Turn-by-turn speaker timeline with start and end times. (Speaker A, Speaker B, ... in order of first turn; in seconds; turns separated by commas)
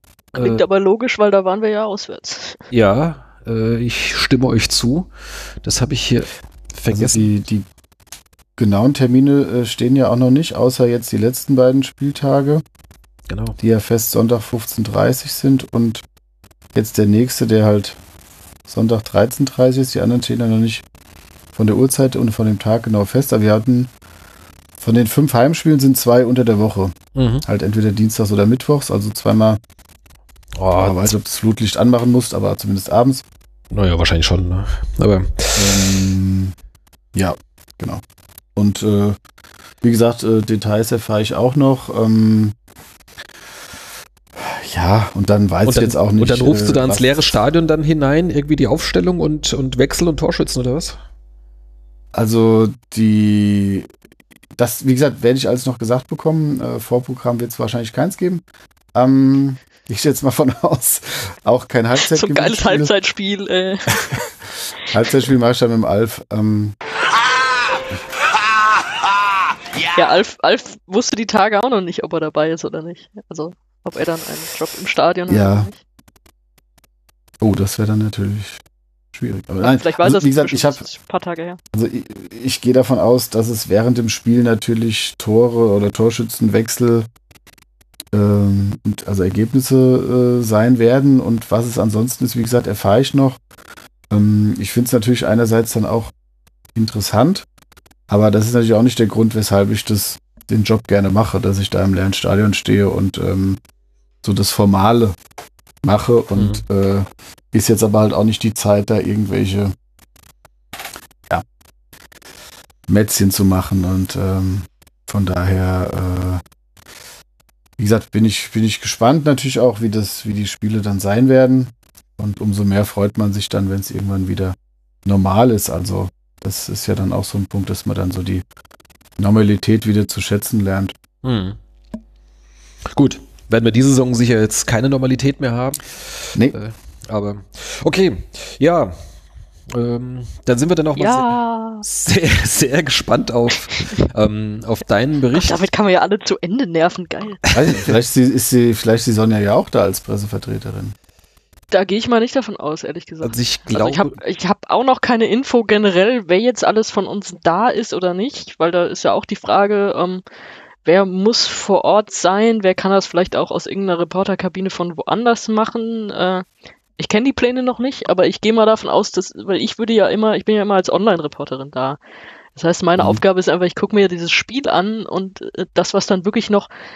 Speaker A: 0.3-0.6, Speaker B: 0.4-2.6, Speaker A: 2.7-5.1, Speaker A: 5.6-7.3, Speaker C: 6.9-7.7, Speaker C: 8.6-12.6, Speaker A: 13.3-13.6, Speaker C: 13.6-16.0, Speaker C: 16.7-18.0, Speaker C: 18.7-20.8, Speaker C: 21.5-23.9, Speaker C: 24.8-29.6, Speaker A: 27.1-27.4, Speaker A: 30.6-31.1, Speaker C: 30.7-33.2, Speaker A: 33.7-36.0, Speaker C: 35.5-36.5, Speaker C: 37.1-38.0, Speaker C: 38.5-39.2, Speaker C: 39.8-42.5, Speaker C: 44.4-47.2, Speaker A: 45.6-51.0, Speaker C: 52.1-53.9, Speaker C: 54.5-58.4, Speaker C: 58.9-62.9, Speaker B: 62.0-64.2, Speaker C: 64.8-66.8, Speaker B: 69.9-75.8, Speaker C: 75.3-75.7, Speaker C: 77.4-80.8, Speaker B: 79.6-81.6, Speaker C: 81.7-87.1, Speaker C: 88.1-93.4, Speaker C: 94.1-96.1, Speaker C: 96.7-97.5, Speaker C: 98.1-103.6, Speaker C: 104.2-105.2, Speaker C: 105.8-109.7, Speaker A: 106.3-106.6, Speaker C: 112.9-116.4, Speaker C: 117.8-128.4, Speaker C: 129.2-130.9, Speaker A: 131.2-131.6, Speaker A: 132.9-138.9, Speaker A: 139.7-145.7, Speaker B: 140.9-141.8, Speaker B: 145.3-147.4, Speaker A: 147.5-147.9, Speaker C: 147.5-150.9, Speaker B: 151.7-160.2, Speaker A: 153.2-154.2, Speaker B: 160.8-166.4, Speaker B: 167.0-172.0, Speaker B: 172.5-176.7